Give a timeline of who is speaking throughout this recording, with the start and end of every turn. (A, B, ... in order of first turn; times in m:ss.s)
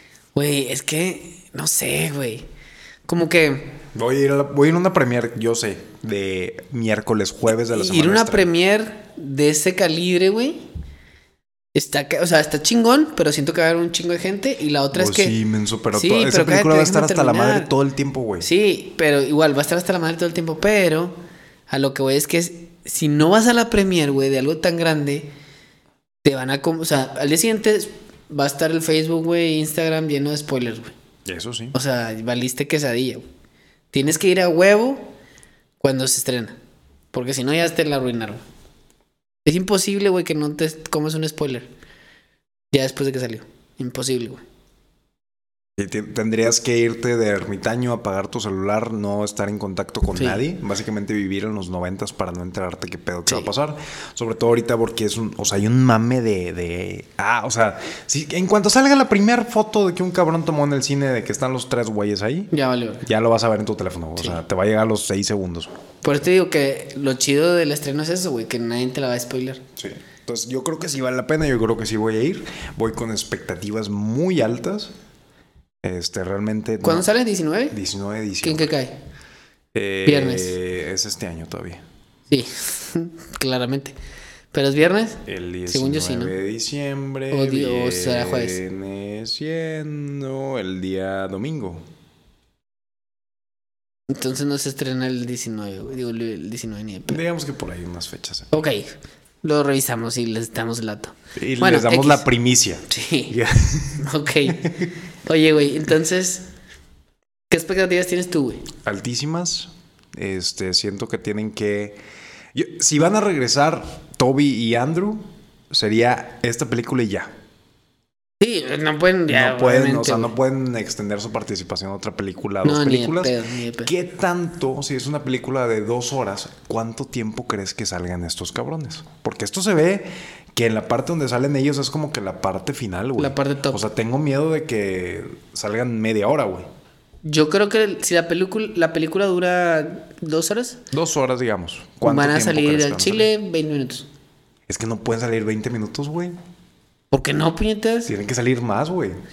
0:00.4-0:02.5 A
0:03.1-0:03.8 A
0:03.9-0:08.5 B
0:07.7-0:10.7 A
0:11.7-0:15.3 A
0:14.9-0:18.5 B
0:15.9-0:17.7 A
0:18.4-0:21.2 A
0:21.7-0:25.3 A
0:26.2-0:30.9 A
0:31.2-0:31.8 B
0:31.7-0:33.2 A
0:33.9-0:35.1 A
0:35.8-0:36.6 A
0:37.1-0:38.4 A
0:39.4-0:41.7 A
0:42.7-0:44.4 A
0:45.8-1:02.5 B
0:50.2-0:50.4 A
1:02.5-1:03.0 A
1:03.0-1:05.8 B
1:06.0-1:09.6 A
1:09.8-1:14.9 B
1:15.8-1:17.1 B
1:16.8-1:17.8 A
1:17.7-1:18.7 B
1:18.4-1:19.0 A
1:19.7-1:21.8 B
1:20.1-1:20.6 A
1:22.3-1:24.0 A
1:24.5-1:26.3 A
1:25.3-1:31.8 B
1:27.3-1:28.6 A
1:34.1-1:37.2 A
1:37.1-1:38.5 B
1:38.5-1:42.2 A
1:41.4-1:44.9 B
1:42.9-1:43.4 A
1:44.0-1:46.5 A
1:47.5-1:48.7 A
1:48.8-1:52.0 B
1:52.5-1:57.3 B
1:58.4-2:00.4 A
1:59.3-2:16.7 B
2:02.6-2:03.9 A
2:13.2-2:13.8 A
2:17.2-2:20.8 A
2:20.9-2:23.3 B
2:22.0-2:24.1 A
2:24.7-2:26.4 B
2:27.1-2:28.1 A
2:28.1-2:29.2 B